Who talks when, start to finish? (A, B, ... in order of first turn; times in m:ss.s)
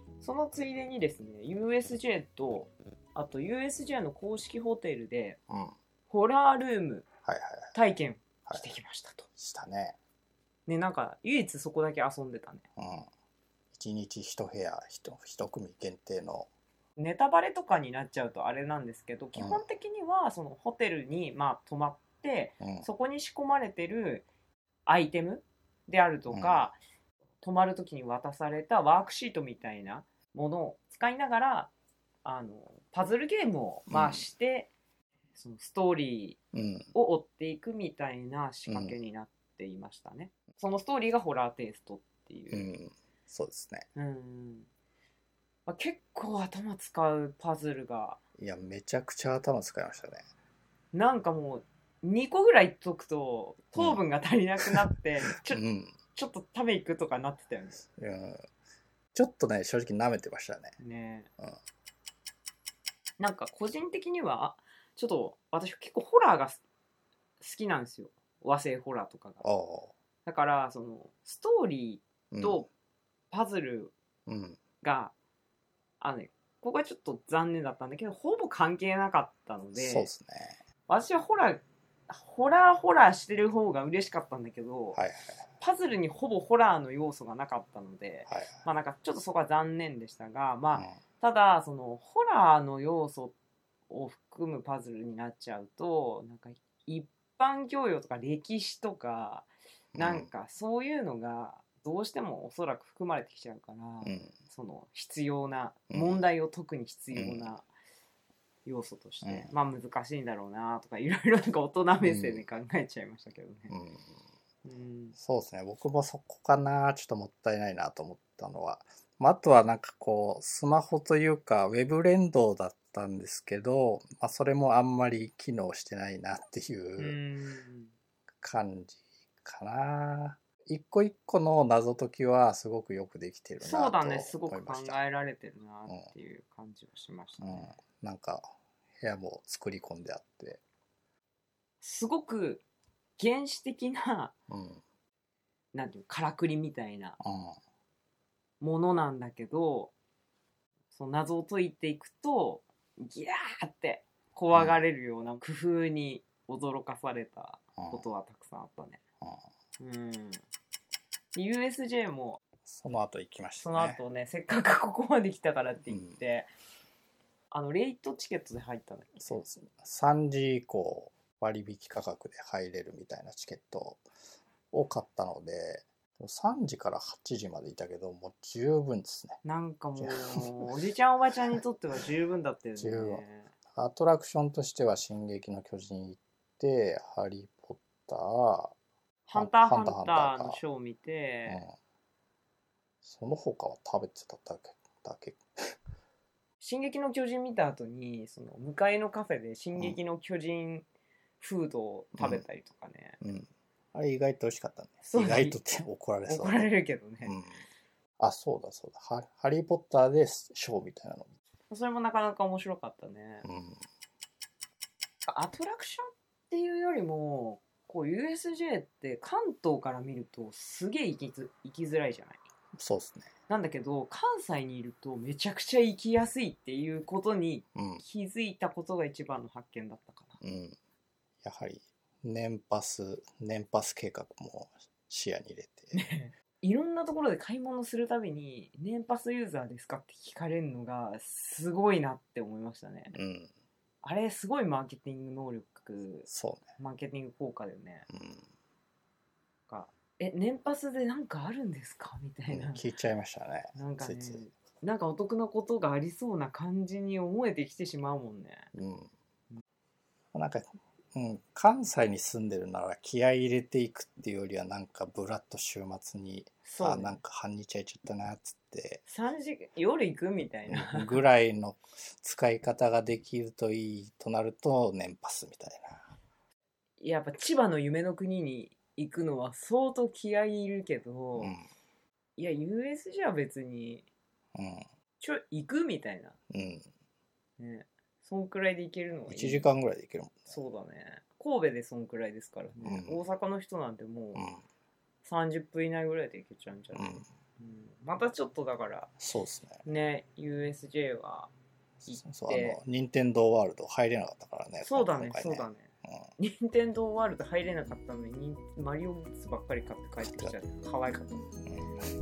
0:00.2-0:05.4 A
0:05.5-0:05.7 B
0:06.1-0:07.0 A
0:07.2-0:07.8 B
0:07.7-0:09.3 A
0:08.5-0:08.7 B
0:09.4-0:10.0 B
0:10.7-0:12.6 A
0:12.8-0:13.1 B
0:13.7-0:16.5 B
0:17.0-0:24.2 A
0:19.4-0:19.6 B
0:22.6-0:22.9 B
0:24.9-0:26.8 A
0:26.3-0:26.7 B
0:27.4-0:31.7 A
0:32.2-0:34.7 A
0:33.9-0:34.3 B
0:35.3-0:36.4 A
0:36.5-0:36.9 B
0:36.9-0:42.7 A
0:38.7-0:39.0 B
0:42.5-0:43.9 B
0:44.0-0:44.7 A
0:45.7-0:48.2 A
0:48.4-0:50.2 B
0:50.9-0:55.6 A
0:53.7-0:54.0 B
0:55.4-0:56.0 B
0:56.1-0:57.8 A
0:57.8-0:58.5 B
0:59.1-1:00.8 B
1:00.8-1:01.3 A
1:03.2-1:06.6 A
1:07.4-1:09.4 A
1:09.4-1:09.9 B
1:10.2-1:12.7 A
1:12.3-1:12.6 B
1:13.3-1:13.9 A
1:14.3-1:14.6 B
1:14.8-1:15.1 A
1:16.0-1:20.1 A
1:19.7-1:20.6 B
1:20.9-1:25.0 A
1:24.9-1:25.4 B
1:25.6-1:33.3 A
1:28.3-1:28.6 B
1:33.9-1:47.7 A
1:39.9-1:40.3 B
1:44.0-1:44.4 B
1:45.9-1:46.2 B
1:47.1-1:47.6 B
1:48.6-1:53.7 A
1:49.2-1:49.5 B
1:52.0-1:52.4 B
1:53.7-1:54.1 B
1:54.6-1:55.2 A
1:55.2-2:07.2 B
2:07.0-2:07.9 A
2:08.4-2:15.0 B
2:13.6-2:17.8 A
2:17.4-2:20.6 B
2:21.8-2:22.6 A
2:23.2-2:24.3 A
2:24.5-2:24.8 B
2:25.7-2:27.2 A
2:27.2-2:27.6 B
2:28.6-2:29.9 A
2:30.9-2:39.0 A
2:34.5-2:34.8 B
2:37.8-2:38.0 B
2:39.8-2:40.4 A
2:41.3-2:42.4 A
2:42.6-2:44.0 B
2:43.6-2:46.5 A
2:45.9-2:46.2 B
2:47.5-2:49.3 A
2:49.2-2:54.0 B
2:54.7-2:59.4 B
2:59.4-3:03.5 A
3:00.0-3:00.6 B
3:02.8-3:08.7 B
3:09.3-3:11.6 A
3:09.3-3:10.6 B
3:11.5-3:11.8 B
3:13.0-3:15.4 B
3:16.6-3:20.9 A
3:21.4-3:23.2 A
3:22.2-3:22.4 B
3:23.2-3:26.7 B
3:25.1-3:25.6 A
3:26.3-3:27.4 A
3:27.2-3:27.6 B
3:28.2-3:31.3 B
3:31.7-3:33.5 A
3:33.4-3:33.8 B
3:35.2-3:42.4 A
3:42.8-3:43.3 B
3:43.5-3:50.4 A
3:47.7-3:48.0 B
3:50.4-3:50.8 B
3:51.4-3:56.0 B
3:55.9-4:03.2 A
4:03.1-4:03.5 B
4:04.0-4:08.0 A
4:06.3-4:06.7 B
4:08.1-4:08.5 B
4:09.7-4:12.8 A
4:12.5-4:14.4 B
4:13.7-4:18.7 A
4:18.7-4:19.1 B
4:20.3-4:29.0 B
4:26.6-4:27.2 A
4:29.0-4:31.2 A
4:30.7-4:36.1 B
4:37.0-4:41.6 A
4:41.4-4:41.6 B
4:42.4-4:44.1 A
4:44.5-4:44.8 B
4:45.2-4:46.4 A
4:46.5-4:46.9 B
4:47.6-4:49.7 A
4:49.3-4:50.5 B
4:50.5-4:54.5 A
4:52.8-4:53.2 B
4:54.3-4:54.6 B
4:55.2-4:59.1 A
4:56.9-4:57.2 B
4:59.2-4:59.8 B
4:59.8-5:01.5 A
5:02.0-5:06.3 B
5:02.0-5:02.8 A
5:04.8-5:11.5 A
5:10.2-5:10.5 B
5:11.6-5:12.1 B